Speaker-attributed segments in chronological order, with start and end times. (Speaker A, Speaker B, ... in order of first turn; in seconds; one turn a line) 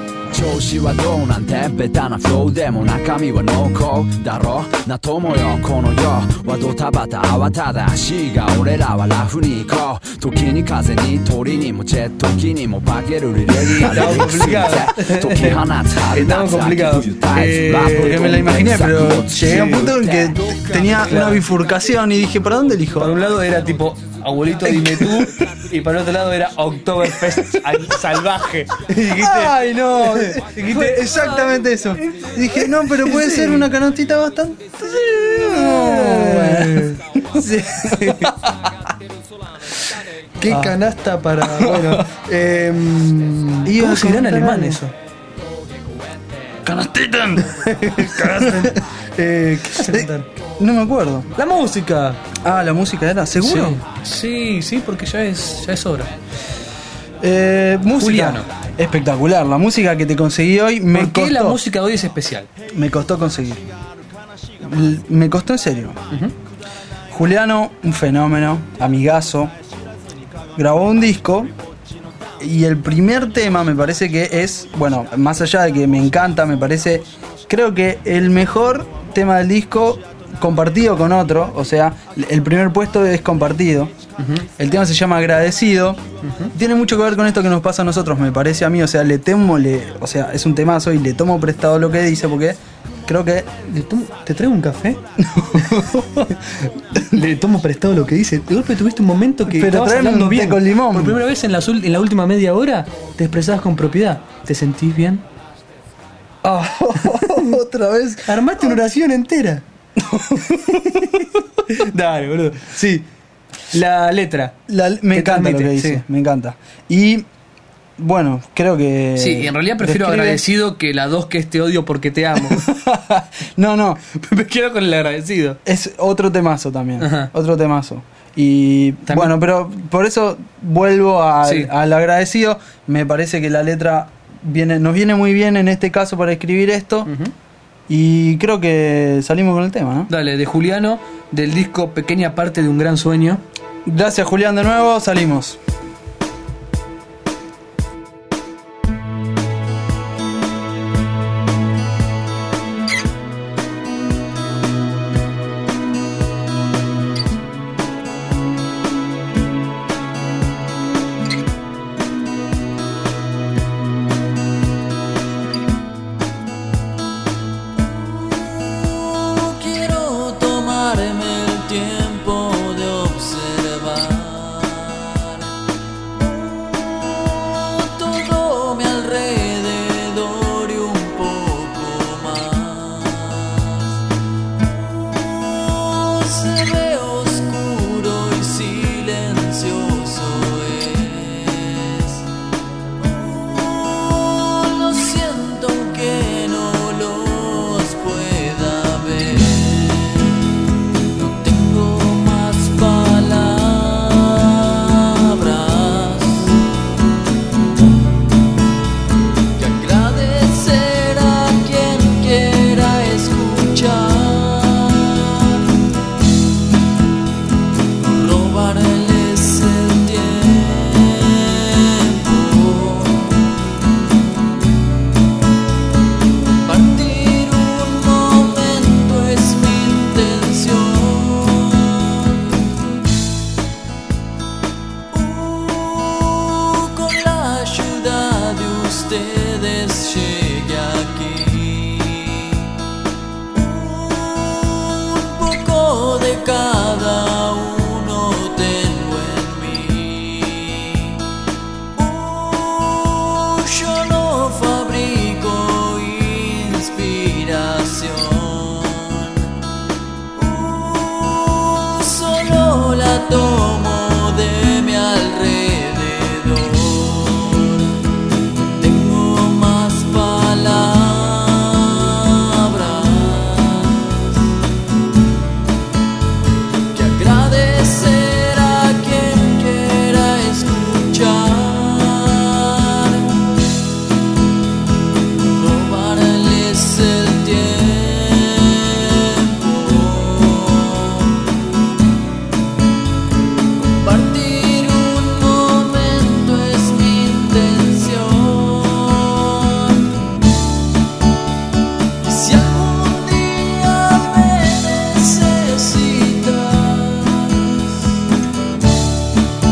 Speaker A: 0.3-20.1
Speaker B: 13.5-18.3
Speaker C: 17.7-23.2
Speaker B: 19.4-21.4
Speaker B: 22.9-33.7
Speaker C: 24.6-25.5
Speaker C: 27.2-27.8
Speaker C: 29.1-38.7
Speaker B: 34.8-38.5
Speaker C: 40.4-40.8
Speaker B: 40.4-44.9
Speaker C: 41.4-42.1
Speaker C: 43.6-44.8
Speaker C: 46.6-51.3
Speaker B: 47.5-50.3
Speaker B: 51.4-52.2
Speaker C: 52.3-53.8
Speaker B: 53.4-56.1
Speaker C: 57.2-61.6
Speaker B: 58.0-58.5
Speaker B: 60.9-62.5
Speaker C: 62.7-63.6
Speaker C: 64.6-66.0
Speaker C: 67.1-69.5
Speaker C: 70.5-71.5
Speaker C: 72.4-83.9
Speaker B: 84.2-84.5
Speaker C: 84.5-86.0
Speaker B: 86.2-86.5
Speaker C: 86.5-93.5
Speaker B: 93.6-95.0
Speaker C: 95.2-97.0
Speaker B: 96.9-105.2
Speaker C: 99.4-101.2
Speaker C: 106.4-108.8
Speaker B: 107.0-107.5
Speaker B: 108.2-109.6
Speaker C: 110.0-111.3
Speaker B: 110.6-113.1
Speaker B: 113.7-114.6
Speaker C: 114.7-117.3
Speaker B: 115.1-116.0
Speaker C: 118.0-120.4
Speaker B: 119.2-122.7
Speaker C: 122.4-124.0
Speaker B: 124.1-125.6
Speaker C: 125.7-137.1
Speaker B: 127.0-127.3
Speaker B: 129.1-129.3
Speaker B: 131.4-131.7
Speaker B: 137.1-137.3
Speaker C: 137.9-140.1
Speaker B: 140.1-143.4
Speaker C: 143.8-145.6
Speaker D: 167.8-175.5
Speaker D: 176.2-184.0
Speaker D: 184.6-192.3
Speaker D: 192.9-200.5
Speaker D: 201.1-206.7
Speaker D: 209.6-215.7
Speaker D: 218.0-223.5
Speaker D: 226.6-232.5
Speaker D: 235.1-242.7
Speaker D: 243.5-251.2
Speaker D: 251.9-259.5
Speaker D: 260.4-268.0
Speaker D: 268.8-274.5
Speaker D: 276.9-283.5
Speaker D: 285.4-291.5
Speaker D: 293.8-300.2
Speaker D: 302.2-308.2